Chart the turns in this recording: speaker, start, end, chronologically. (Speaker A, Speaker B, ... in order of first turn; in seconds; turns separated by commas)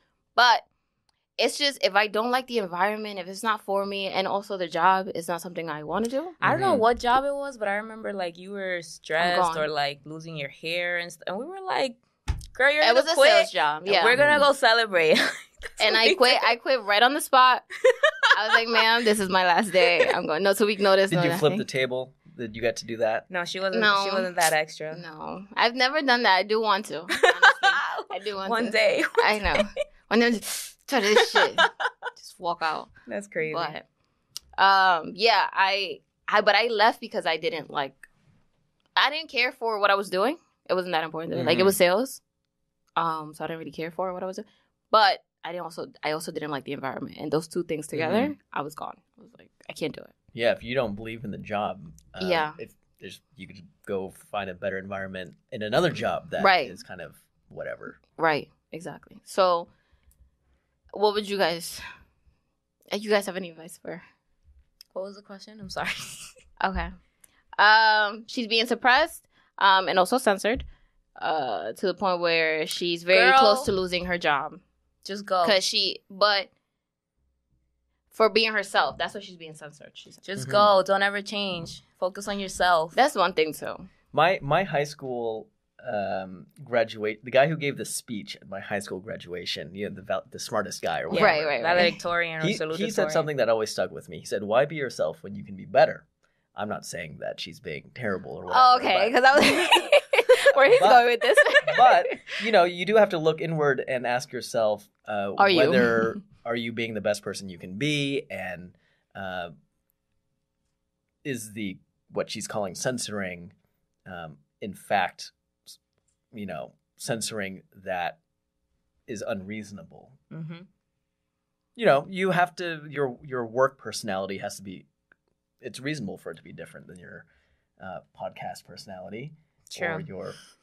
Speaker A: 0.4-0.7, Speaker A: 1.4-6.3, Speaker B: 6.4-12.0, Speaker C: 6.4-6.8, Speaker A: 9.2-9.7, Speaker B: 12.5-16.4, Speaker A: 12.8-14.2, Speaker C: 14.2-14.5, Speaker A: 15.8-17.7, Speaker B: 17.9-18.3, Speaker A: 18.3-21.6, Speaker C: 21.1-23.2, Speaker B: 23.3-25.0, Speaker A: 23.7-24.3, Speaker A: 24.9-32.9, Speaker B: 27.1-29.7, Speaker B: 31.2-31.7, Speaker B: 33.1-33.8, Speaker A: 33.5-33.9, Speaker A: 34.6-38.1, Speaker A: 39.0-42.2, Speaker C: 41.3-41.8, Speaker A: 43.0-50.1, Speaker C: 47.9-48.3, Speaker C: 50.3-58.0, Speaker A: 52.2-52.6, Speaker A: 56.4-56.8, Speaker A: 58.1-59.7, Speaker A: 60.9-61.8, Speaker A: 62.9-64.0, Speaker B: 64.9-66.3, Speaker A: 66.6-66.9, Speaker A: 67.6-70.7, Speaker A: 71.2-74.6, Speaker B: 73.1-73.7, Speaker B: 75.0-75.6, Speaker A: 75.4-76.5, Speaker A: 78.1-80.3, Speaker B: 80.2-83.0, Speaker C: 80.4-80.7, Speaker A: 82.9-83.9, Speaker C: 84.1-99.4, Speaker A: 91.1-92.0, Speaker B: 91.1-93.3, Speaker A: 98.5-102.2, Speaker C: 100.7-109.5, Speaker A: 105.4-106.2, Speaker C: 111.2-113.5, Speaker C: 114.1-115.8, Speaker C: 116.3-118.2, Speaker C: 119.1-120.2, Speaker B: 120.3-120.7, Speaker C: 121.8-124.9, Speaker C: 125.6-127.3, Speaker C: 127.8-130.4, Speaker B: 129.7-130.1